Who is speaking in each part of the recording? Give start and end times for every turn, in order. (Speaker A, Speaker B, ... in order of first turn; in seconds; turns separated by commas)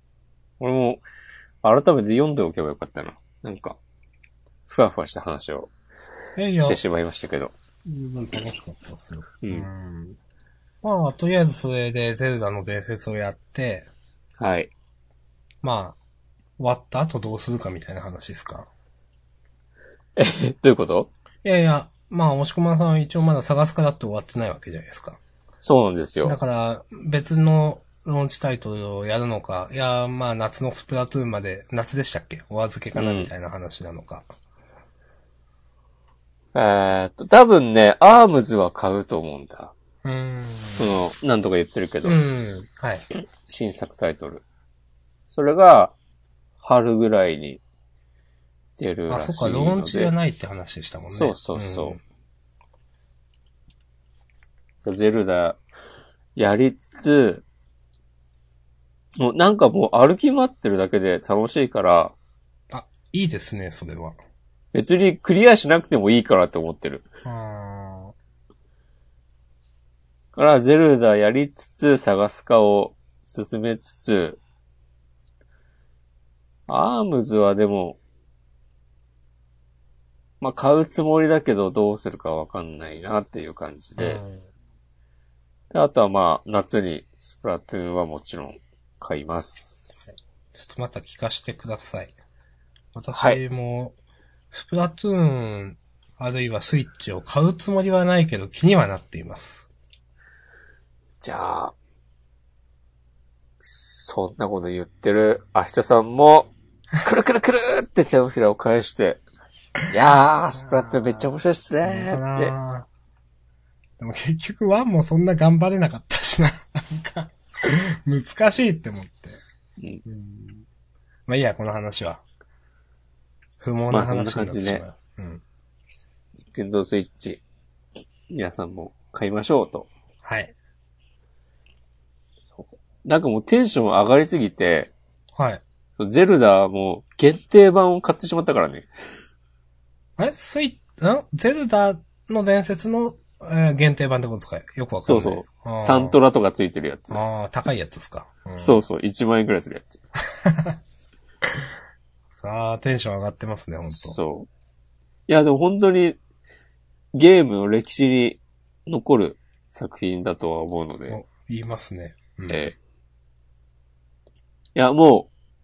Speaker A: 0.6-1.0, Speaker A: 1.6-3.8, Speaker A: 4.7-5.7, Speaker B: 6.4-6.8, Speaker A: 6.6-7.5, Speaker B: 7.8-10.2, Speaker A: 9.4-9.7, Speaker B: 10.8-13.9, Speaker A: 14.4-14.7, Speaker B: 15.6-16.0, Speaker B: 16.6-18.7, Speaker A: 20.2-21.1, Speaker B: 21.4-25.2, Speaker A: 25.6-26.4, Speaker B: 26.2-34.3, Speaker A: 33.0-33.3, Speaker A: 36.5-39.7, Speaker B: 40.0-40.9, Speaker A: 40.8-42.2, Speaker B: 42.0-43.1, Speaker A: 43.3-44.4, Speaker A: 45.3-45.9, Speaker A: 46.6-47.6, Speaker A: 48.8-50.1, Speaker B: 49.1-52.0, Speaker A: 51.1-52.0, Speaker A: 54.9-55.6, Speaker A: 56.4-57.4, Speaker A: 59.2-62.1, Speaker B: 62.7-64.2, Speaker A: 64.7-67.1, Speaker B: 67.2-68.1, Speaker A: 70.3-74.4, Speaker A: 76.7-78.0, Speaker A: 80.4-84.2, Speaker B: 84.0-84.5, Speaker A: 85.7-90.1, Speaker B: 90.5-92.1, Speaker B: 92.9-94.0, Speaker A: 93.1-93.4, Speaker B: 94.5-99.7, Speaker A: 101.2-101.7, Speaker A: 103.6-109.2, Speaker A: 109.9-112.5, Speaker B: 110.6-111.3, Speaker B: 111.8-112.9, Speaker B: 114.0-119.4, Speaker B: 120.0-120.7, Speaker B: 121.3-122.2, Speaker B: 123.6-125.4, Speaker A: 123.9-124.8, Speaker A: 126.5-127.4, Speaker A: 128.3-129.9, Speaker B: 130.2-130.5, Speaker A: 132.6-134.9, Speaker B: 135.4-135.6, Speaker A: 136.0-138.9, Speaker B: 140.2-146.2, Speaker A: 145.0-147.2, Speaker B: 147.1-148.8, Speaker A: 148.6-150.0, Speaker B: 150.3-150.8, Speaker B: 152.3-154.2, Speaker A: 153.9-154.5, Speaker A: 155.3-156.2, Speaker A: 157.1-161.2, Speaker B: 161.1-162.7, Speaker A: 162.5-162.8, Speaker A: 164.8-165.3